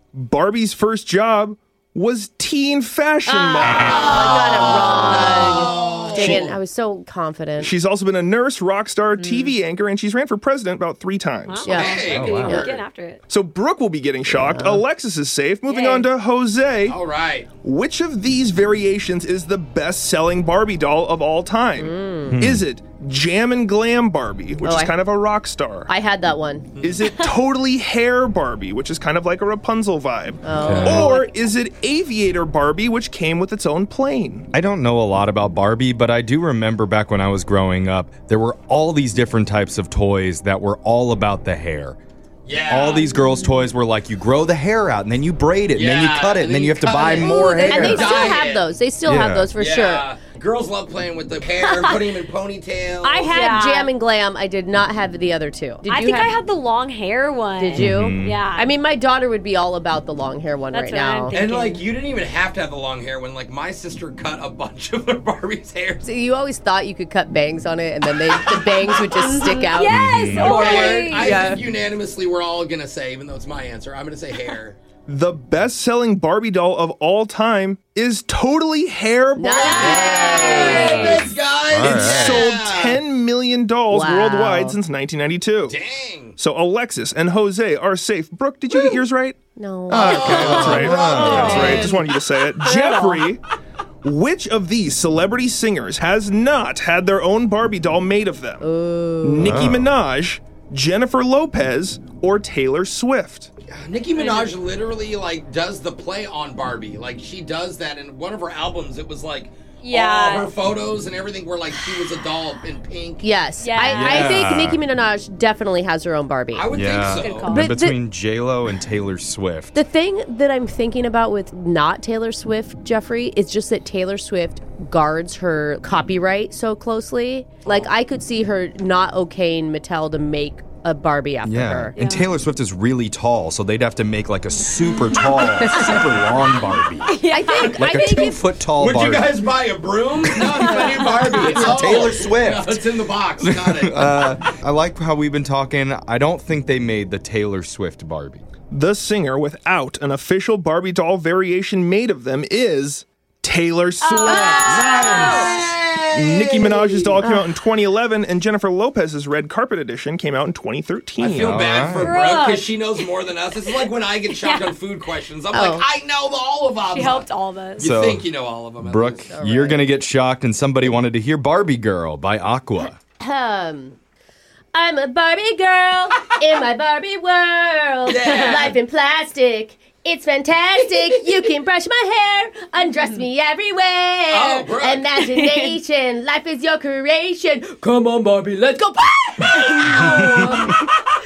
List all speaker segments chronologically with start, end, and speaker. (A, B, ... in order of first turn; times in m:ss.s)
0:00.2-0:04.5 A
0:03.3-0:07.7 B
0:03.6-0:06.6 C
0:07.6-0:12.0 A
0:09.2-0:09.5 D
0:11.5-0:13.2 D
0:11.7-0:12.7 B
0:11.7-0:12.8 C
0:12.1-0:12.6 E
0:13.3-0:17.0 A
0:14.4-0:14.8 B
0:15.7-0:16.1 D
0:16.9-0:17.5 C
0:17.6-0:25.9 A
0:21.8-0:22.4 B
0:22.3-0:22.6 E
0:24.6-0:25.0 B
0:25.9-0:26.7 B
0:26.8-0:27.1 C
0:26.8-0:34.5 A
0:30.4-0:31.4 B
0:30.5-0:31.1 E
0:30.6-0:30.9 C
0:34.5-0:42.0 E
0:42.5-0:43.0 C
0:42.7-0:48.2 E
0:45.7-0:48.7 C
0:47.0-0:50.1 B
0:49.1-0:49.5 E
0:49.5-0:53.4 C
0:51.6-0:52.0 D
0:53.0-0:56.4 B
0:53.2-0:53.9 D
0:55.8-0:58.7 D
0:57.6-1:01.4 B
0:57.8-0:58.4 E
1:00.7-1:01.8 D
1:01.3-1:06.0 C
1:06.0-1:11.6 B
1:08.3-1:09.2 C
1:09.2-1:11.5 D
1:09.9-1:10.7 E
1:10.3-1:14.8 C
1:15.1-1:20.9 A
1:19.4-1:21.3 B
1:19.6-1:21.2 D
1:19.9-1:23.0 C
1:20.0-1:21.2 E
1:21.7-1:22.5 E
1:21.9-1:25.8 A
1:23.9-1:24.8 B
1:25.7-1:26.4 C
1:26.4-1:29.4 A
1:29.6-1:31.4 B
1:29.9-1:33.4 A
1:30.0-1:32.1 C
1:30.3-1:31.7 E
1:31.0-1:32.0 D
1:32.6-1:33.2 D
1:34.0-1:38.7 A
1:38.6-1:39.5 B
1:39.2-1:43.5 A
1:39.4-1:39.9 E
1:43.7-1:53.3 C
1:44.2-1:44.6 D
1:49.8-1:50.5 D
1:53.2-1:56.7 B
1:53.6-1:54.3 D
1:53.8-1:54.8 E
1:56.5-1:57.6 C
1:56.7-1:59.8 E
1:57.2-1:57.8 D
1:57.4-1:58.0 B
1:59.7-2:11.9 B
2:11.5-2:17.2 E
2:12.0-2:12.4 D
2:15.1-2:16.3 B
2:17.0-2:18.3 D
2:17.3-2:18.4 B
2:17.7-2:19.3 E
2:18.6-2:24.4 C
2:20.3-2:22.8 E
2:21.5-2:21.8 B
2:23.4-2:28.4 E
2:28.7-2:34.9 A
2:34.0-2:35.4 D
2:34.2-2:35.5 B
2:34.7-2:35.4 E
2:34.9-2:36.6 C
2:36.1-2:41.7 A
2:36.8-2:37.1 D
2:37.2-2:37.5 B
2:41.2-2:49.3 C
2:41.4-2:42.2 E
2:42.0-2:42.7 D
2:44.3-2:44.8 D
2:45.5-2:45.9 B
2:46.9-2:47.9 D
2:47.8-2:48.2 E
2:48.8-2:53.0 E
2:49.3-2:49.9 B
2:53.2-2:54.0 B
2:54.7-3:07.9 B
2:58.0-2:58.8 C
2:58.3-2:58.6 D
3:04.3-3:05.1 C
3:05.2-3:05.8 D
3:07.8-3:08.8 C
3:08.7-3:10.7 B
3:09.7-3:10.6 D
3:10.0-3:10.7 E
3:10.2-3:10.7 C